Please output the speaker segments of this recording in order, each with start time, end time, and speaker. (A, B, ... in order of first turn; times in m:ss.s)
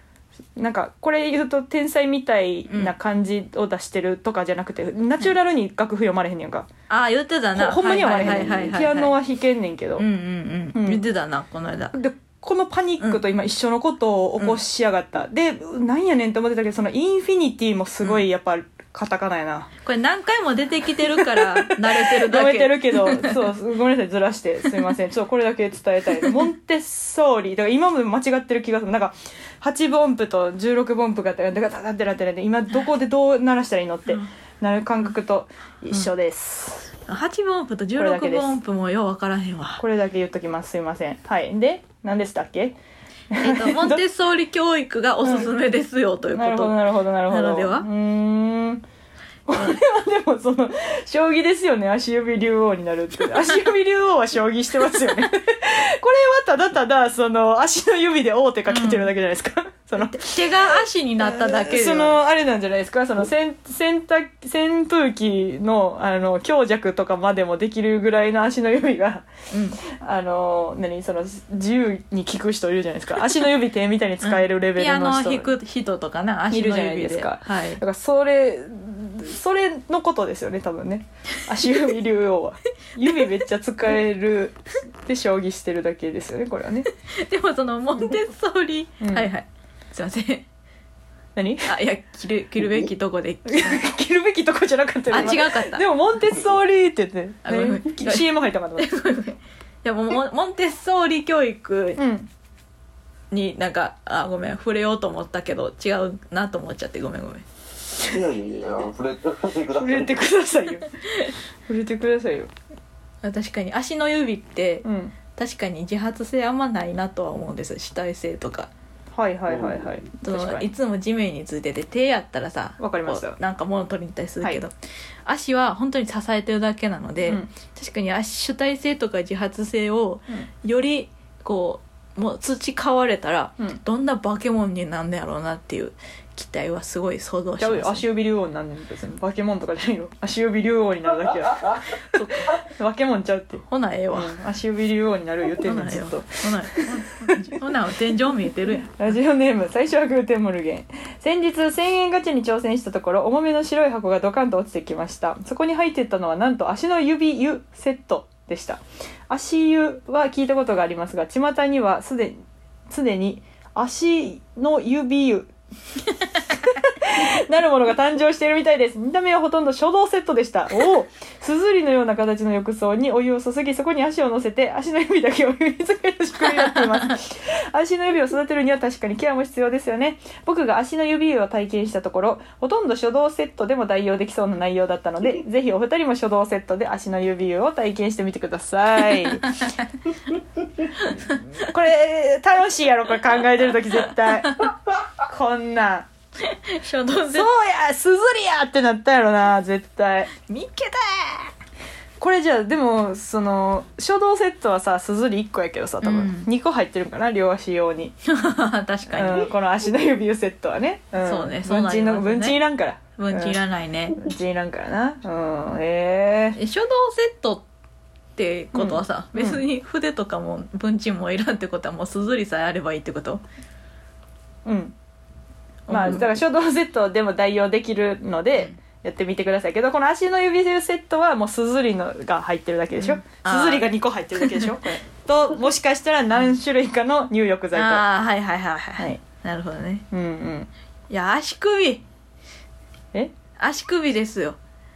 0:00.6-0:06.7 A
0:02.7-0:02.9 B
0:06.9-0:09.2 B
0:07.5-0:10.0 A
0:10.0-0:12.0 B
0:10.7-0:11.0 A
0:11.9-0:19.7 A
0:19.8-0:23.4 B
0:21.2-0:36.9 A
0:37.1-0:39.8 B
0:38.0-0:38.6 A
0:39.8-0:42.8 A
0:43.3-0:44.0 A
0:43.4-0:47.9 B
0:45.2-0:45.5 A
0:46.3-0:48.8 A
0:49.5-1:00.5 A
0:58.7-0:59.1 B
1:00.0-1:02.2 B
1:01.2-1:09.3 A
1:09.5-1:09.8 B
1:09.8-1:15.5 A
1:14.2-1:17.8 B
1:16.5-1:26.9 A
1:23.0-1:23.3 B
1:27.0-1:30.5 B
1:29.0-1:29.3 A
1:31.4-1:31.7 A
1:31.6-1:33.8 B
1:33.4-1:38.9 A
1:35.1-1:35.8 B
1:37.4-1:42.0 B
1:42.0-1:42.3 A
1:43.3-1:47.5 B
1:48.0-1:50.1 C
1:49.7-1:50.9 A
1:51.7-1:52.5 A
1:53.2-1:58.7 B
1:54.8-1:55.2 A
1:59.2-2:00.7 A
2:00.2-2:04.7 B
2:02.8-2:03.4 A
2:05.3-2:18.0 B
2:17.6-2:27.6 A
2:22.0-2:22.6 B
2:23.7-2:24.4 B
2:25.6-2:29.0 B
2:28.9-2:45.5 A
2:46.5-3:09.6 A
2:56.5-2:57.1 B
3:09.2-3:09.9 B
3:11.0-3:11.3 B
3:11.6-3:16.1 A
3:16.4-3:17.5 B
3:17.3-3:20.3 A
3:20.4-3:21.5 B
3:22.2-3:28.2 A
3:26.0-3:26.5 B
3:28.2-3:29.5 B
3:29.1-3:33.6 A
3:31.2-3:32.6 B
3:33.2-3:34.3 B
3:34.1-3:36.6 A
3:36.6-3:37.7 B
3:38.4-3:43.4 B
3:38.7-3:39.6 A
3:44.6-3:45.0 A
3:45.9-3:46.3 B
3:45.9-3:58.0 A
3:53.0-3:54.7 B
3:57.7-4:00.0 B
4:00.1-4:00.7 A
4:01.1-4:02.0 B
4:03.6-4:04.6 B